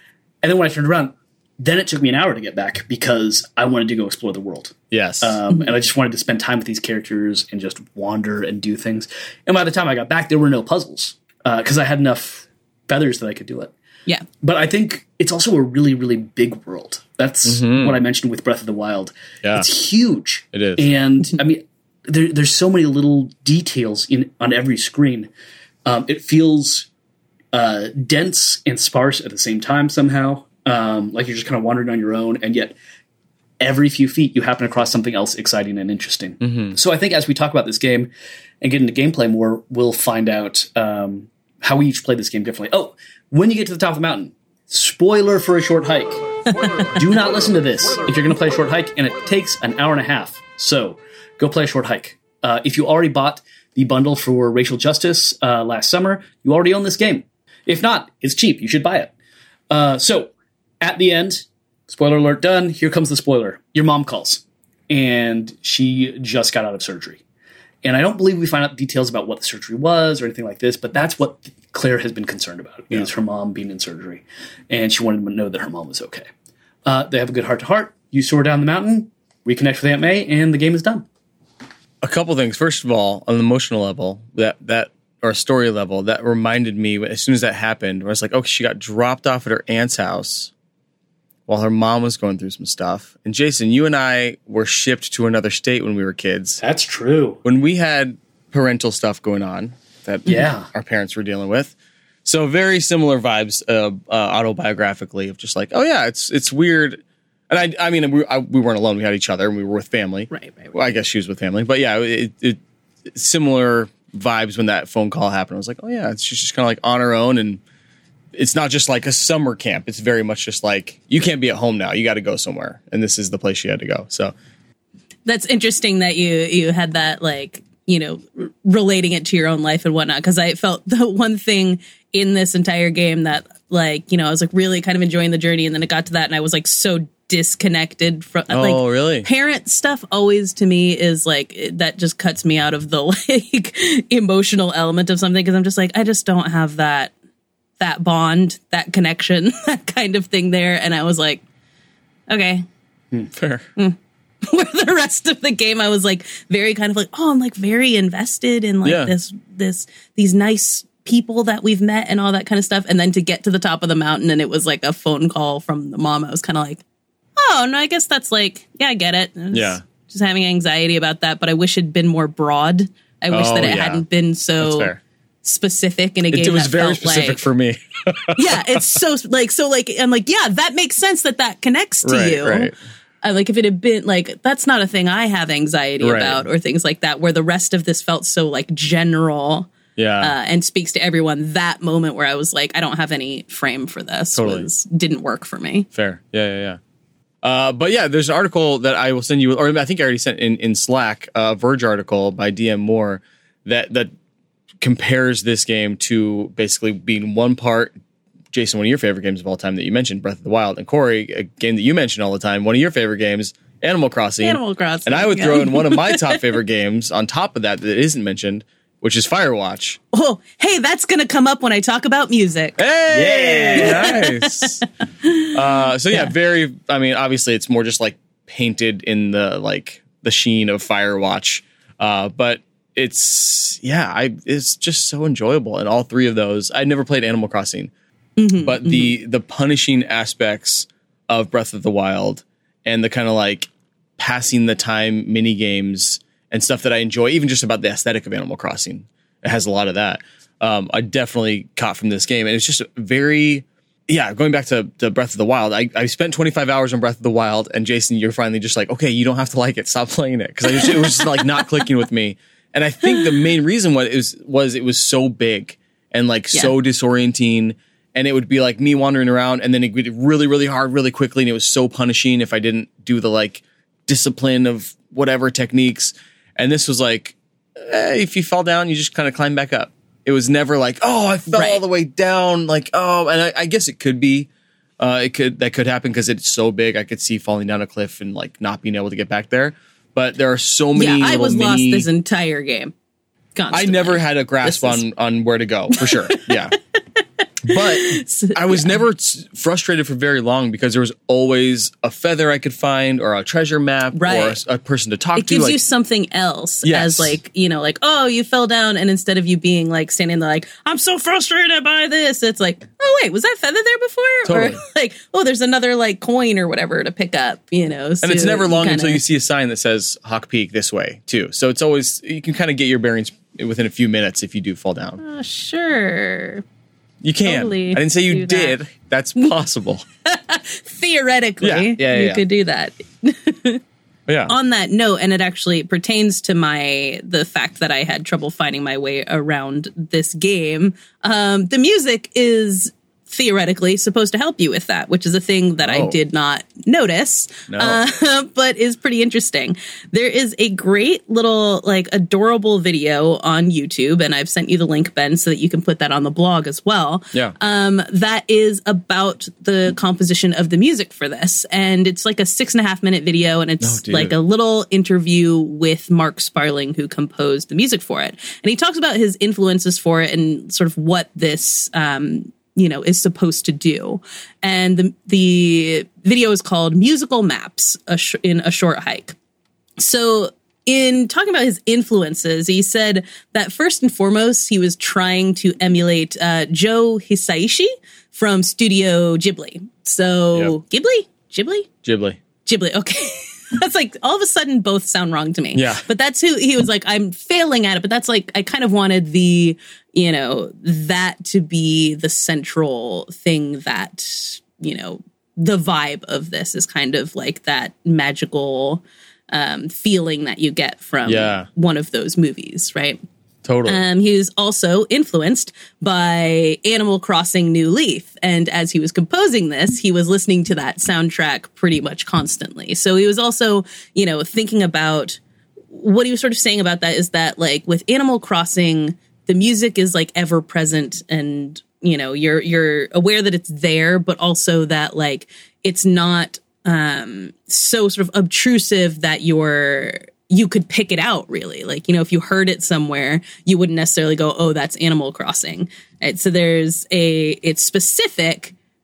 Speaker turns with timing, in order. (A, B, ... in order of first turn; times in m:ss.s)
0:00.4-0:13.7 A
0:04.9-0:05.4 B
0:14.4-0:25.3 A
0:17.4-0:18.0 B
0:19.4-0:19.7 B
0:20.5-0:20.9 B
0:25.8-0:26.9 A
0:27.5-0:32.7 A
0:33.6-0:38.1 A
0:36.4-0:36.8 B
0:38.6-0:46.2 A
0:46.6-0:46.9 C
0:46.9-0:59.1 A
0:59.7-1:07.2 A
1:07.8-1:16.3 A
1:16.8-1:21.0 A
1:22.0-1:30.5 B
1:31.5-1:36.6 B
1:36.6-1:37.4 A
1:37.4-1:57.6 B
1:40.3-1:40.7 A
1:50.3-1:50.8 C
1:58.3-2:04.3 B
2:05.2-2:27.1 C
2:18.5-2:19.3 B
2:27.8-2:31.4 C
2:32.3-2:32.6 C
2:33.3-2:33.6 B
2:33.8-2:46.8 C
2:38.8-2:39.1 B
2:47.4-2:54.9 C
2:49.5-2:49.8 B
2:53.3-2:54.0 B
2:54.6-2:55.0 B
2:55.4-2:57.4 C
2:56.3-2:59.0 B
2:58.3-3:09.7 C
3:02.0-3:02.8 B
3:06.0-3:06.4 B
3:10.0-3:10.3 B
3:10.2-3:15.9 C
3:14.4-3:14.7 B
3:15.9-3:16.8 B
3:17.4-3:24.1 B
3:24.8-3:28.0 B
3:28.5-3:40.0 B
3:34.4-3:36.4 C
3:40.1-3:42.8 C
3:42.8-3:44.8 B
3:43.1-3:44.0 A
3:43.8-3:45.5 C
3:45.5-3:57.9 B
3:58.4-3:59.1 C
3:58.6-4:52.1 B
4:20.8-4:21.2 C
4:41.5-4:41.8 C
4:51.0-4:52.9 C
4:53.5-4:55.0 C
4:53.7-4:56.8 B
4:56.0-4:56.5 C
4:57.6-5:05.8 B
4:57.7-4:59.0 C
5:04.1-5:04.6 C
5:05.4-5:19.2 C
5:06.8-5:07.4 B
5:14.4-5:14.8 B
5:18.2-5:25.2 B
5:25.2-5:26.6 C
5:27.2-5:30.0 B
5:27.4-5:28.8 C
5:30.2-5:33.8 C
5:31.6-5:32.4 B
5:34.3-5:34.5 B
5:34.5-6:19.4 C
5:45.8-5:46.2 B
5:47.7-5:48.0 B
6:03.8-6:04.4 B
6:20.0-6:31.9 C
6:32.0-6:32.4 B
6:32.6-6:53.2 C
6:35.7-6:36.0 B
6:51.2-6:51.7 B
6:53.6-6:54.0 B
6:53.8-7:05.4 C
7:05.9-7:28.7 C